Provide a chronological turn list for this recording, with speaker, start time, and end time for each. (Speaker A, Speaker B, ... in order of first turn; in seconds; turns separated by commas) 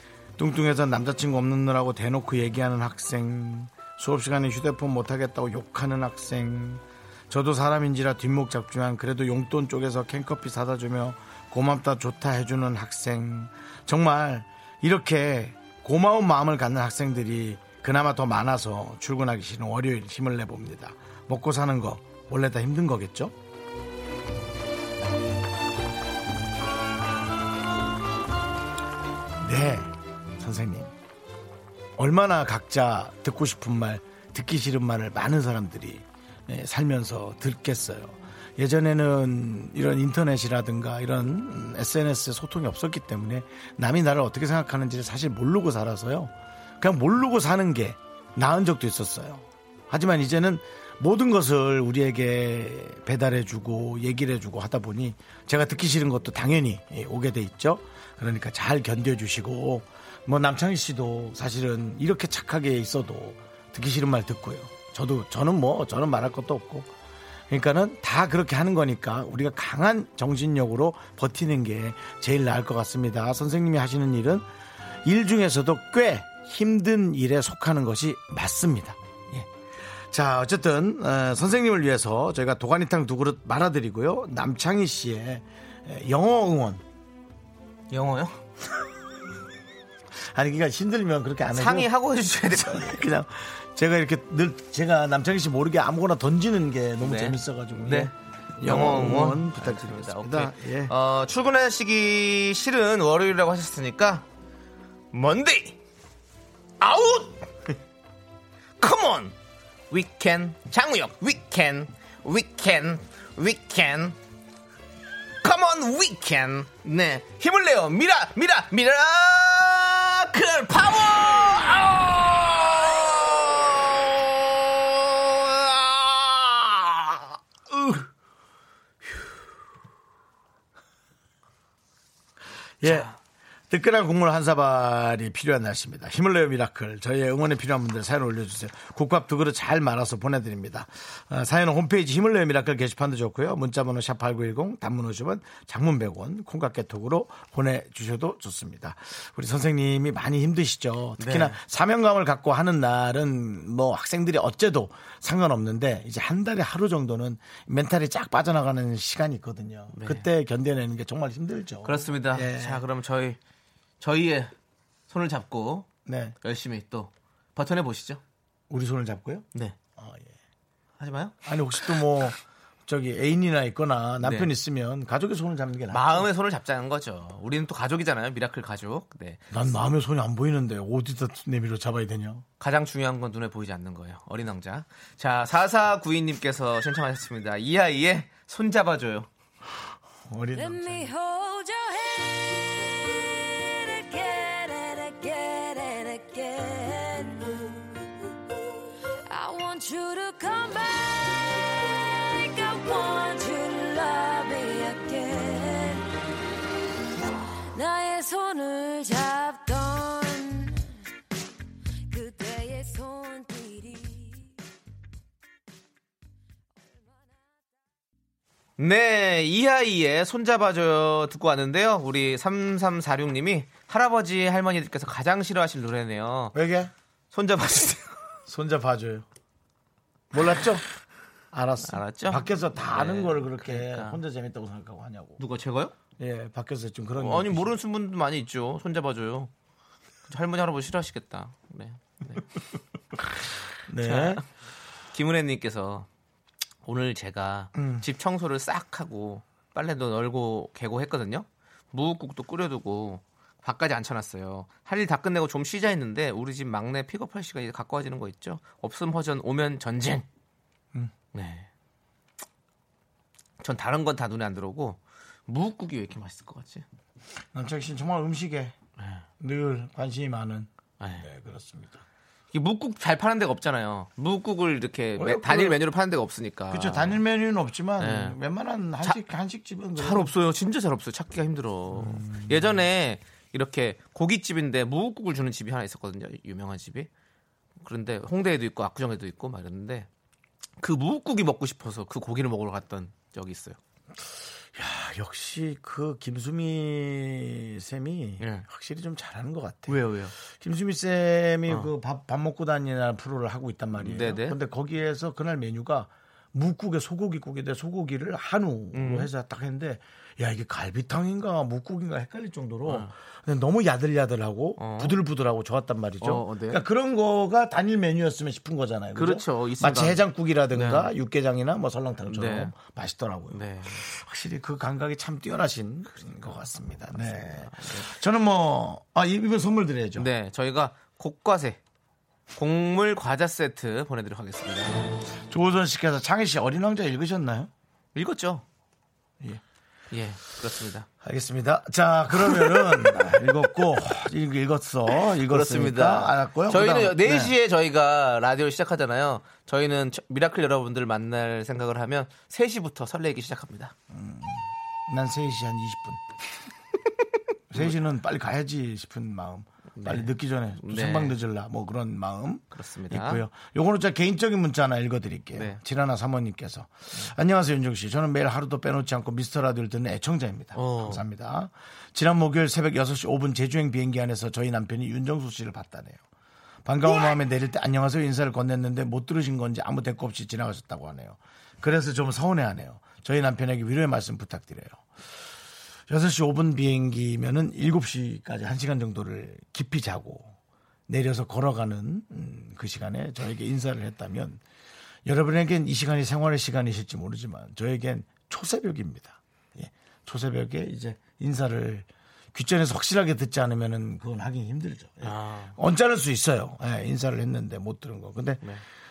Speaker A: 0.4-23.3, Speaker A: 29.4-30.9, Speaker A: 32.0-66.9, Speaker A: 67.5-74.5, Speaker A: 75.0-79.5, Speaker A: 80.1-86.8, Speaker B: 87.9-88.4, Speaker A: 90.3-91.9, Speaker B: 91.5-93.0, Speaker A: 92.4-100.9, Speaker B: 97.0-104.2, Speaker B: 105.1-105.8, Speaker B: 106.8-107.4, Speaker B: 108.8-109.3, Speaker B: 109.9-114.2, Speaker B: 115.4-123.9, Speaker B: 125.3-126.7, Speaker A: 126.2-126.5, Speaker A: 127.7-128.0, Speaker A: 132.8-133.1, Speaker B: 132.8-133.1, Speaker A: 133.7-162.8, Speaker B: 151.2-151.6, Speaker B: 159.9-160.2, Speaker B: 161.8-163.4, Speaker B: 164.0-164.5, Speaker B: 165.1-165.9, Speaker A: 166.1-166.3, Speaker B: 166.4-168.2, Speaker A: 168.7-170.3, Speaker B: 171.0-171.3, Speaker A: 171.4-176.3, Speaker B: 174.2-174.5, Speaker B: 175.9-179.5, Speaker A: 179.5-182.4, Speaker B: 182.6-189.3, Speaker A: 190.3-191.1, Speaker C: 190.5-198.0, Speaker C: 199.2-206.1, Speaker C: 207.7-210.9, Speaker C: 212.1-214.5, Speaker B: 218.8-226.5, Speaker A: 226.5-226.9, Speaker B: 227.3-228.1, Speaker A: 228.5-229.2, Speaker A: 230.3-230.8, Speaker A: 231.5-235.4, Speaker B: 231.8-234.2, Speaker B: 235.4-235.9, Speaker A: 236.2-237.8, Speaker B: 237.2-239.5, Speaker B: 240.3-242.4, Speaker A: 243.2-244.4, Speaker B: 244.0-244.4, Speaker B: 245.1-246.1, Speaker B: 246.8-260.2, Speaker A: 247.7-248.0, Speaker B: 261.3-261.7, Speaker B: 263.6-266.8, Speaker A: 267.5-268.8, Speaker B: 269.0-269.2, Speaker A: 269.4-272.0, Speaker B: 271.0-271.2, Speaker B: 272.5-277.2, Speaker A: 275.1-275.8, Speaker A: 276.7-280.3, Speaker B: 278.0-278.4, Speaker B: 280.0-287.1, Speaker A: 281.9-282.8, Speaker B: 287.8-290.1, Speaker B: 290.8-293.8, Speaker A: 294.7-330.3, Speaker B: 298.4-298.6, Speaker B: 299.9-300.3, Speaker B: 304.0-304.6, Speaker B: 308.9-309.3, Speaker B: 312.8-313.1, Speaker B: 314.8-315.1, Speaker B: 316.2-316.8, Speaker B: 319.1-321.1, Speaker B: 322.3-322.7, Speaker B: 323.5-324.0, Speaker B: 326.1-328.1, Speaker B: 330.1-331.8, Speaker B: 332.5-335.0, Speaker A: 335.5-337.7, Speaker B: 338.1-338.6, Speaker B: 340.1-341.1, Speaker A: 341.2-347.5, Speaker B: 345.5-353.9, Speaker A: 354.1-356.2, Speaker A: 357.7-376.2, Speaker B: 359.9-361.4, Speaker B: 362.7-363.4, Speaker B: 365.5-365.8, Speaker B: 370.7-371.2, Speaker A: 376.8-385.1, Speaker A: 386.1-390.5, Speaker A: 391.1-394.6, Speaker A: 395.2-408.6, Speaker B: 405.2-405.7